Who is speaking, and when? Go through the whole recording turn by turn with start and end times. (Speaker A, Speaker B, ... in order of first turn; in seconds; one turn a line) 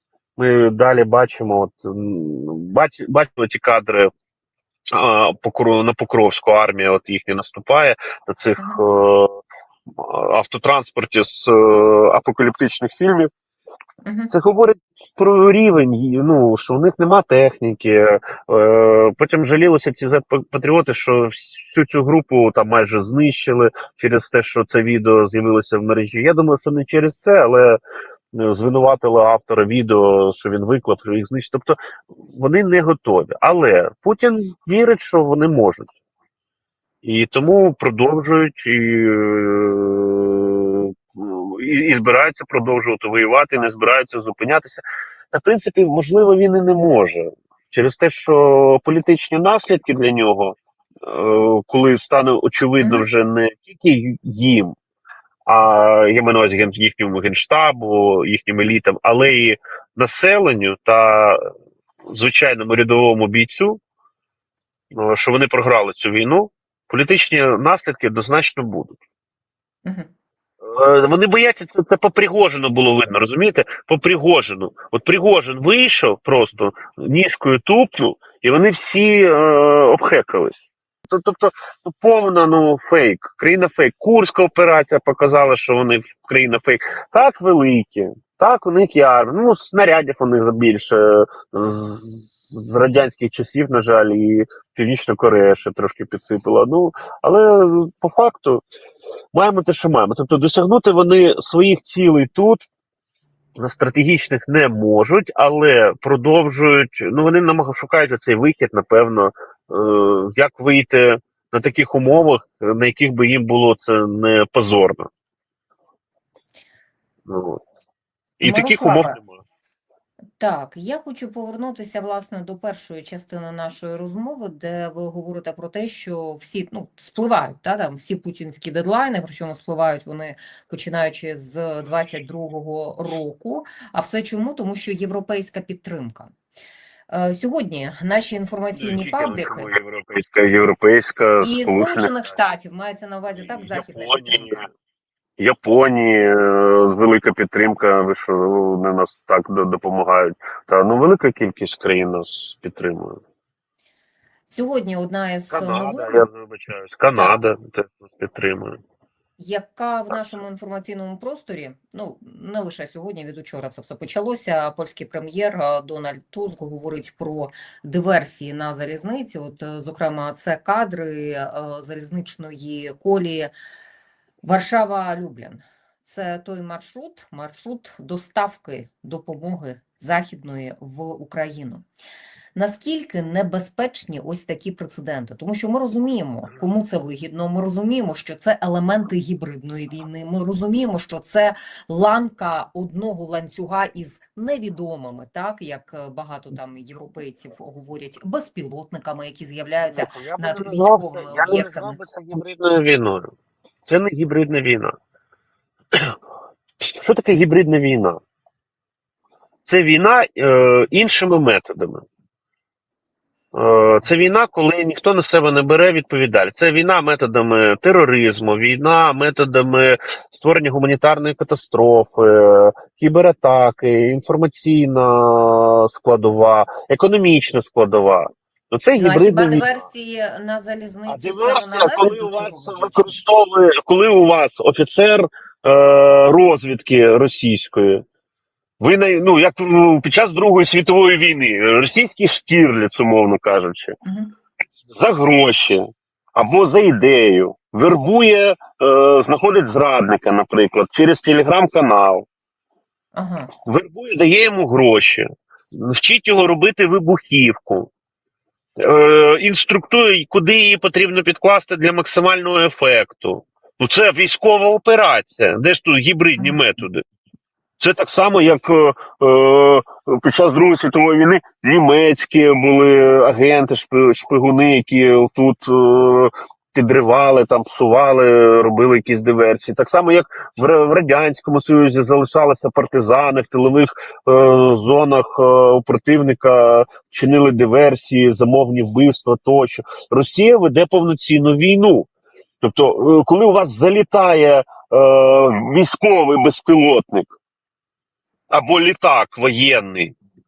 Speaker A: 0.4-4.1
Speaker A: 4.9-9.3
Speaker B: 8.6-8.8
Speaker A: 10.0-13.3
Speaker B: 14.0-14.3
Speaker A: 14.3-27.8
Speaker A: 28.3-31.8
Speaker A: 32.3-35.9
Speaker A: 37.0-54.7
Speaker B: 52.8-53.1
Speaker A: 55.5-61.4
Speaker A: 62.1-63.8
Speaker A: 64.9-69.0
Speaker A: 70.6-98.6
Speaker A: 99.3-102.7
Speaker A: 103.6-115.1
Speaker A: 117.3-117.6
Speaker A: 118.4-119.4
Speaker B: 118.4-119.2
Speaker B: 120.4-136.3
Speaker B: 137.1-139.7
Speaker A: 138.7-142.3
Speaker B: 141.4-144.6
Speaker A: 143.3-144.7
Speaker A: 145.4-153.2
Speaker B: 154.5-156.2
Speaker A: 155.5-158.8
Speaker B: 159.4-173.5
Speaker B: 174.4-181.8
Speaker B: 182.5-202.0
Speaker A: 199.8-203.3
Speaker A: 203.8-204.9
Speaker A: 206.8-208.2
Speaker A: 209.6-212.0
Speaker A: 213.5-229.8
Speaker B: 229.0-233.2
Speaker A: 231.1-238.0
Speaker A: 238.8-243.9
Speaker B: 244.0-244.3
Speaker A: 244.9-252.2
Speaker B: 253.1-253.5
Speaker A: 253.7-257.9
Speaker A: 258.8-267.0
Speaker B: 266.4-266.6
Speaker A: 267.8-292.1
Speaker A: 292.6-297.4
Speaker A: 298.5-300.1